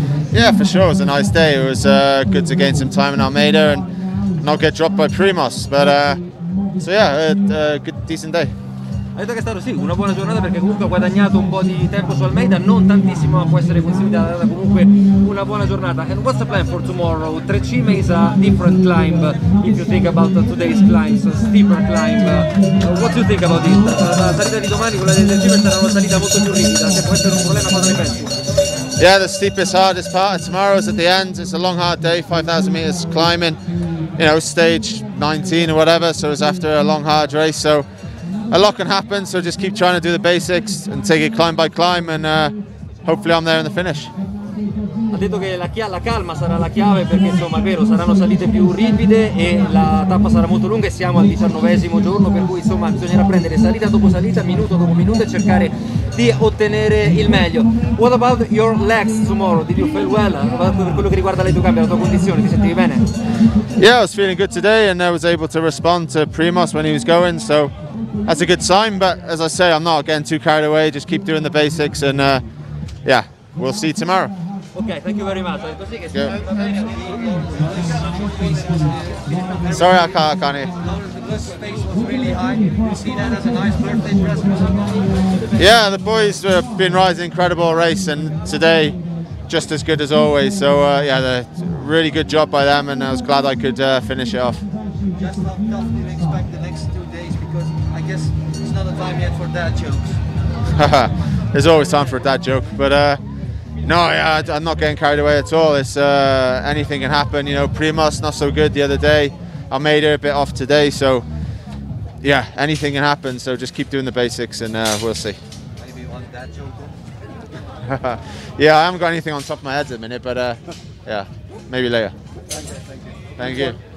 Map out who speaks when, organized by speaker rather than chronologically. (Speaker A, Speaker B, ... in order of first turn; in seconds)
Speaker A: 0.3-8.5, 29.0-33.6, 34.2-37.9, 38.5-44.1, 63.8-67.7, 68.2-72.4, 73.0-74.3, 79.7-80.7, 85.6-94.6, 100.7-103.2, 103.8-111.3, 112.2-115.4, 117.8-122.2, 123.4-123.8
Speaker B: 9.2-28.4, 45.1-63.1, 74.7-76.5
Speaker C: 76.3-79.2, 80.8-85.3, 95.2-100.2, 115.8-117.0, 123.4-123.7